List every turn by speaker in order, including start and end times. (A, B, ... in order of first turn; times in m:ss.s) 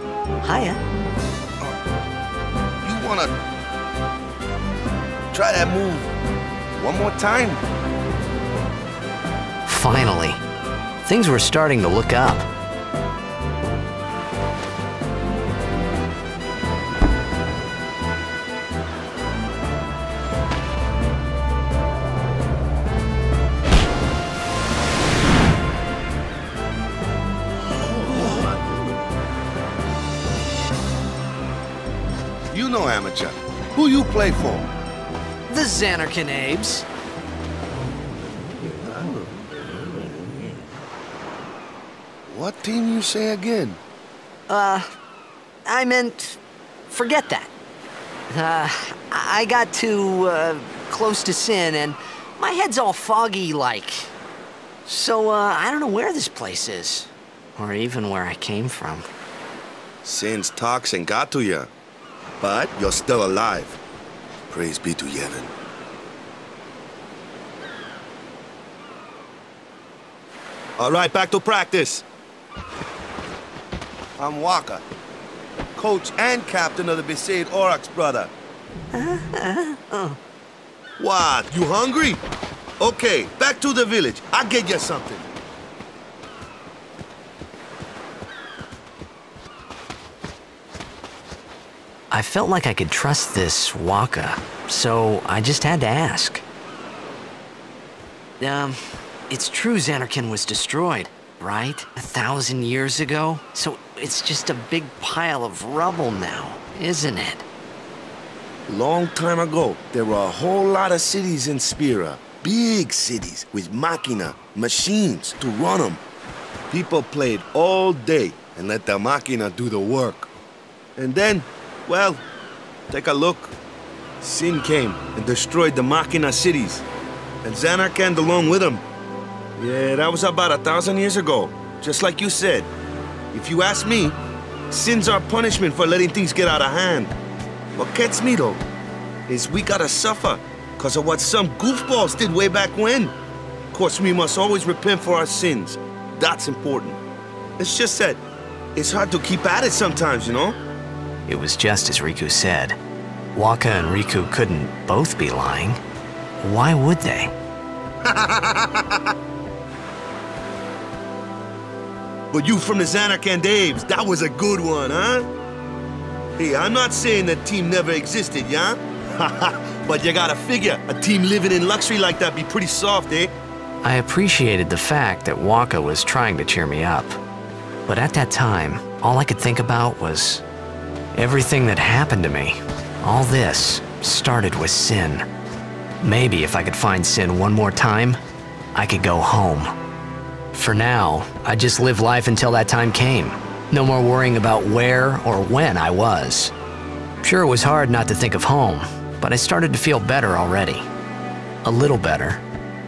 0:00.4-0:00.8 A
0:02.8-0:03.3 B
0:05.3-0:06.1 B
0:06.7-0:07.6 B
0:09.6-0:10.4 A
0:11.0-0:12.5 A
0:32.5-0:34.7 B
0:35.5-0:36.8 A
0:42.3-0:43.8 B
0:44.5-0:44.9 A
0:45.6-0:47.5 A
0:48.3-0:54.1 A
0:54.8-0:59.1 A
1:00.0-1:01.7 B
1:02.4-1:03.8 B
1:04.5-1:05.5 B
1:10.8-1:12.0 B
1:14.2-1:14.8 B
1:15.8-1:18.3 B
1:18.9-1:20.2 A
1:21.0-1:22.2 B
1:22.8-1:25.3 B
1:32.1-1:36.4 A
1:38.4-1:47.4 A
1:48.7-1:56.0 B
1:56.7-2:00.3 B
2:01.0-2:02.2 B
2:02.9-2:03.5 B
2:04.2-2:06.8 B
2:07.4-2:08.8 B
2:09.6-2:12.7 B
2:13.3-2:14.2 B
2:14.7-2:17.1 B
2:17.7-2:18.6 B
2:19.3-2:23.1 B
2:23.7-2:27.0 B
2:27.6-2:28.2 B
2:28.7-2:30.6 B
2:31.3-2:32.8 A
2:33.3-2:35.8 A
2:36.4-2:37.3 A
2:38.0-2:39.1 B
2:42.3-2:45.3 B
2:46.4-2:53.3 B
2:53.8-2:57.2 A
2:57.9-3:00.4 A
3:01.1-3:05.2 A
3:06.0-3:08.2 A
3:08.7-3:09.7 A
3:10.5-3:16.5 A
3:17.2-3:20.8 A
3:21.6-3:22.4 A